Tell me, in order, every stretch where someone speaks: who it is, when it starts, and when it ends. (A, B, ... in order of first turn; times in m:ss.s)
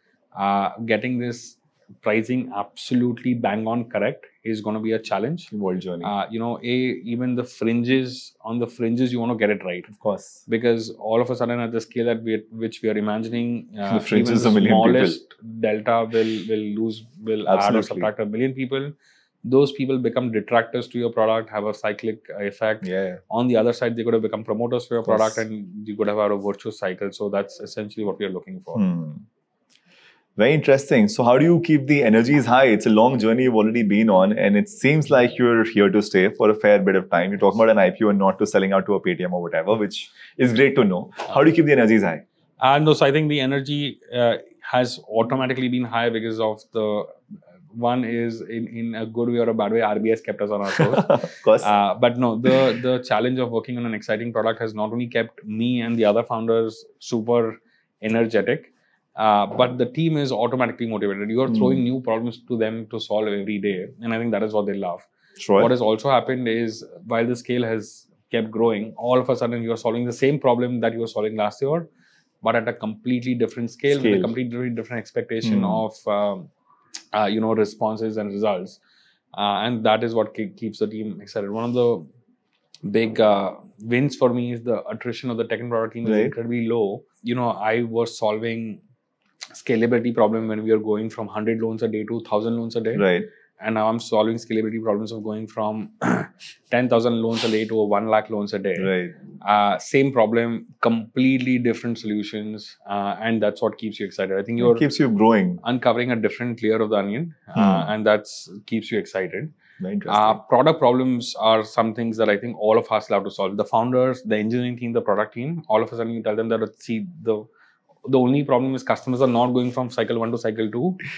0:00.3-0:09.9 A
0:05.5-0:06.1 B
0:09.9-0:10.4 B
0:10.5-0:28.8 A
0:13.9-0:15.2 B
0:17.5-0:18.1 B
0:22.8-0:23.2 B
0:25.0-0:25.4 B
0:28.7-0:29.2 B
0:30.4-0:42.2 B
0:42.6-0:47.2 A
0:47.7-1:11.9 A
0:50.7-0:51.7 B
1:01.5-1:01.8 B
1:05.4-1:05.7 B
1:12.4-1:16.5 A
1:13.9-1:14.3 B
1:15.4-1:15.8 B
1:17.1-1:18.8 A
1:19.3-1:22.1 A
1:22.8-1:28.8 A
1:26.0-1:26.3 B
1:29.5-1:44.9 A
1:33.0-1:33.3 B
1:38.8-1:39.1 B
1:44.6-1:45.6 B
1:45.6-1:49.5 A
1:47.5-1:47.9 B
1:49.8-1:50.4 B
1:50.0-1:57.4 A
1:58.0-2:01.0 A